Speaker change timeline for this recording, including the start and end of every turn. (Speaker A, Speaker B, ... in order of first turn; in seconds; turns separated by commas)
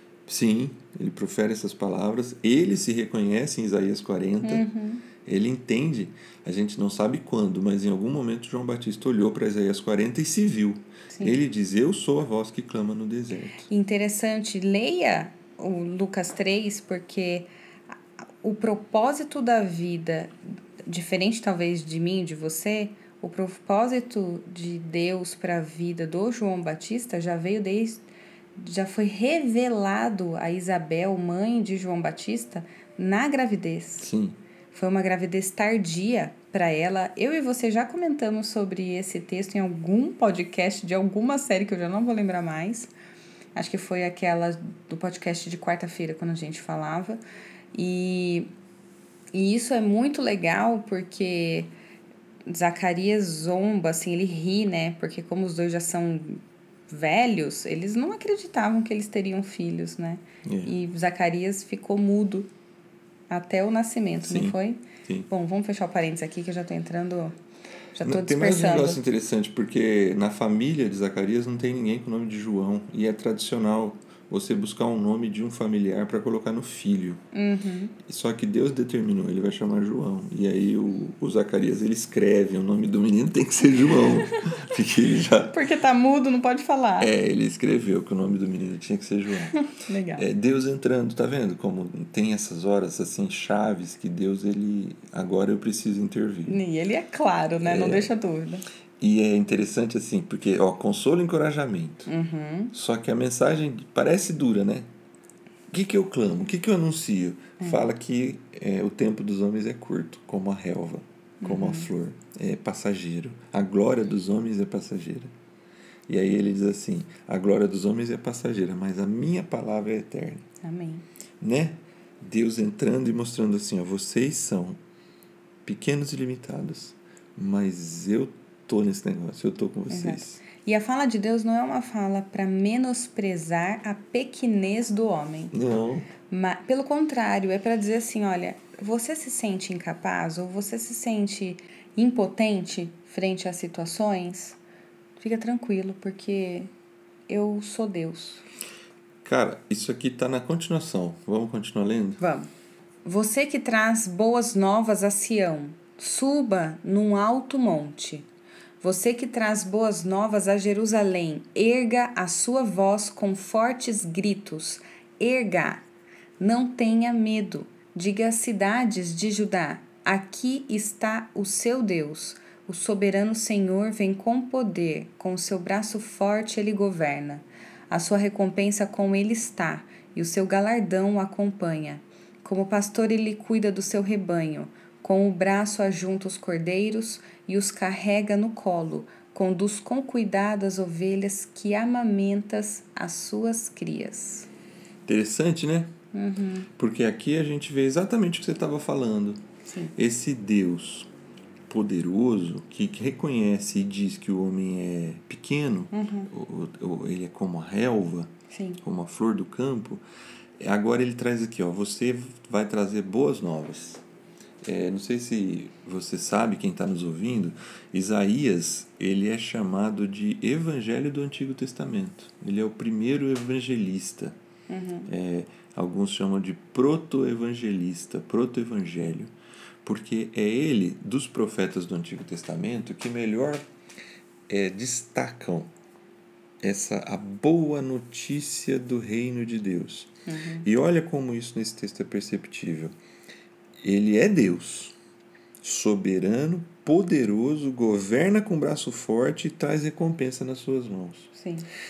Speaker A: 0.3-4.6, Speaker B: 4.4-5.0, Speaker A: 5.2-13.7, Speaker B: 13.7-17.5, Speaker B: 18.4-20.3, Speaker B: 20.9-28.0, Speaker B: 28.6-34.1, Speaker A: 34.0-34.4, Speaker B: 34.7-42.9, Speaker B: 43.5-47.2, Speaker B: 47.7-48.5, Speaker B: 49.3-51.7, Speaker B: 52.5-62.5, Speaker A: 60.4-60.7, Speaker B: 63.3-67.3, Speaker A: 64.2-65.3, Speaker B: 67.9-69.0, Speaker A: 68.0-77.2, Speaker B: 77.3-77.9, Speaker A: 78.0-85.6, Speaker B: 85.5-87.1, Speaker A: 87.0-89.6, Speaker B: 89.5-90.2, Speaker A: 90.1-96.6, Speaker B: 96.5-98.7, Speaker A: 97.6-98.1, Speaker A: 99.0-102.1, Speaker B: 102.1-102.7, Speaker A: 102.7-104.9, Speaker A: 105.7-115.3, Speaker B: 111.4-111.9, Speaker A: 116.1-120.4, Speaker B: 120.6-121.0, Speaker A: 121.4-124.8, Speaker A: 125.7-130.4, Speaker B: 129.9-135.5, Speaker A: 135.5-136.1, Speaker B: 136.3-144.6, Speaker B: 145.2-146.7, Speaker B: 147.3-148.4, Speaker A: 149.2-152.2, Speaker B: 152.2-152.5, Speaker B: 153.0-158.3, Speaker B: 158.8-165.8, Speaker B: 166.4-194.5, Speaker A: 195.1-195.9, Speaker B: 196.1-196.7, Speaker A: 196.8-199.4, Speaker B: 199.6-199.9, Speaker A: 199.9-201.1, Speaker A: 201.7-210.0, Speaker B: 205.9-206.3, Speaker B: 208.5-208.8, Speaker A: 210.6-214.0, Speaker A: 214.6-224.4, Speaker B: 224.7-225.1, Speaker A: 225.1-229.3, Speaker A: 229.8-233.7, Speaker A: 234.5-235.7, Speaker A: 236.6-240.1, Speaker B: 240.2-240.7, Speaker A: 240.6-242.9, Speaker A: 243.8-244.9, Speaker A: 245.6-251.3, Speaker B: 251.3-251.7